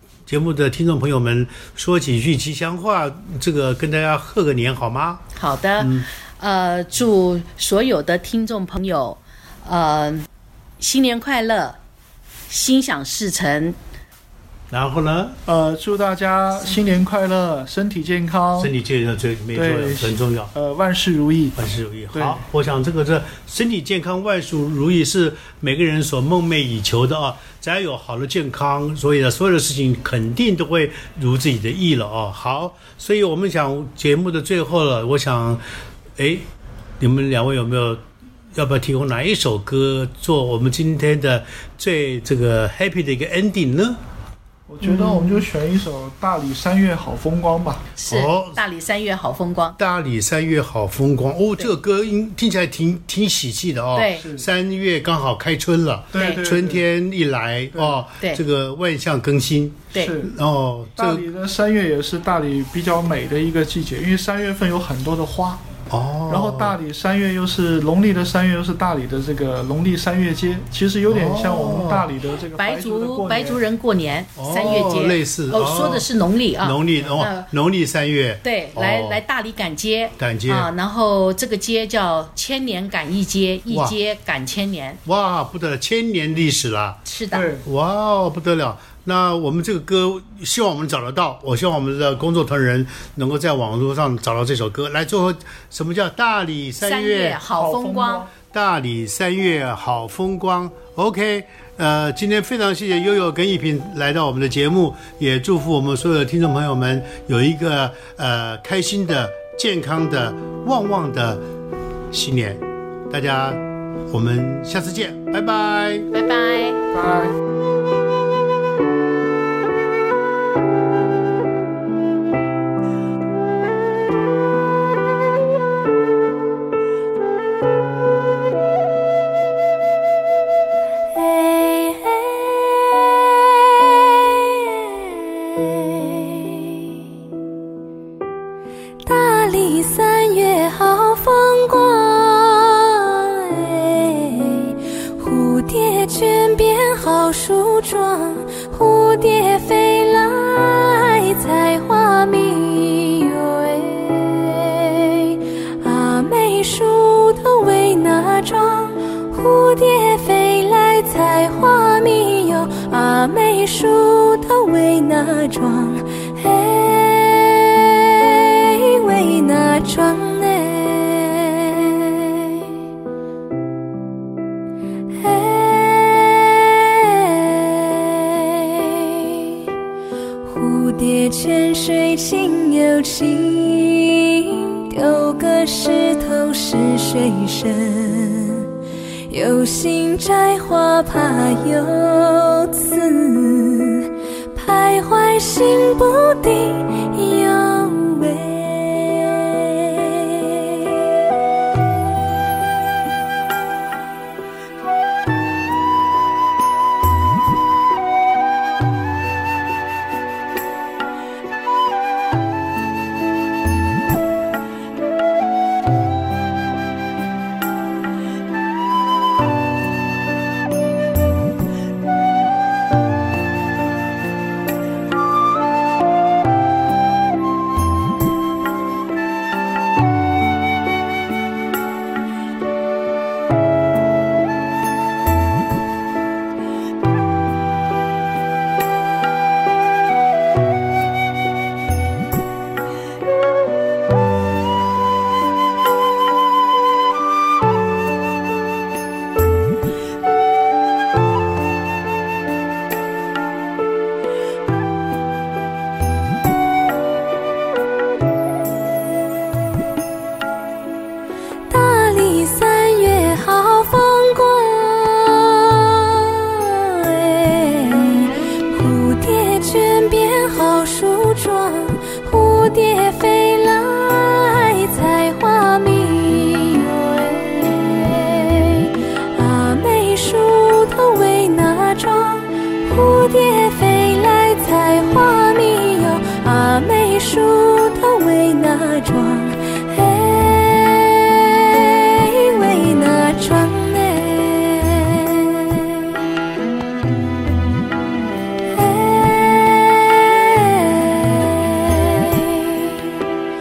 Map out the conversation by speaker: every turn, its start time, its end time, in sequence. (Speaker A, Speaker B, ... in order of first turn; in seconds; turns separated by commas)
Speaker A: 0.3-5.2, Speaker B: 5.3-10.3, Speaker A: 5.8-6.1, Speaker B: 10.8-11.8, Speaker B: 12.5-13.8, Speaker A: 14.7-15.4, Speaker C: 15.5-18.7, Speaker A: 18.6-20.5, Speaker C: 19.5-21.6, Speaker A: 21.6-35.6, Speaker C: 22.1-22.4, Speaker A: 36.2-36.5, Speaker A: 37.0-38.0, Speaker A: 38.5-44.0, Speaker C: 44.7-47.9, Speaker A: 44.8-45.3, Speaker B: 48.0-49.8, Speaker A: 48.1-48.6, Speaker A: 49.8-61.2, Speaker B: 53.9-54.2, Speaker C: 56.1-56.8, Speaker B: 56.1-56.4, Speaker C: 60.0-60.3, Speaker C: 61.0-65.6, Speaker A: 65.9-66.8, Speaker C: 66.3-73.6, Speaker A: 71.1-72.1, Speaker B: 72.5-77.5, Speaker A: 74.3-76.1, Speaker A: 76.6-79.2, Speaker B: 78.4-85.0, Speaker A: 80.2-80.7, Speaker A: 83.7-84.0, Speaker A: 85.0-87.0, Speaker B: 87.0-87.5, Speaker C: 87.3-87.7, Speaker A: 87.6-97.4, Speaker B: 96.8-98.3, Speaker C: 97.5-98.3, Speaker A: 98.5-111.4, Speaker A: 112.1-116.1, Speaker B: 116.1-116.8, Speaker C: 116.9-117.3, Speaker D: 131.1-137.0, Speaker D: 139.0-172.8, Speaker D: 175.1-179.7, Speaker D: 180.4-188.7, Speaker D: 189.3-201.1, Speaker D: 261.7-296.2, Speaker D: 298.7-303.2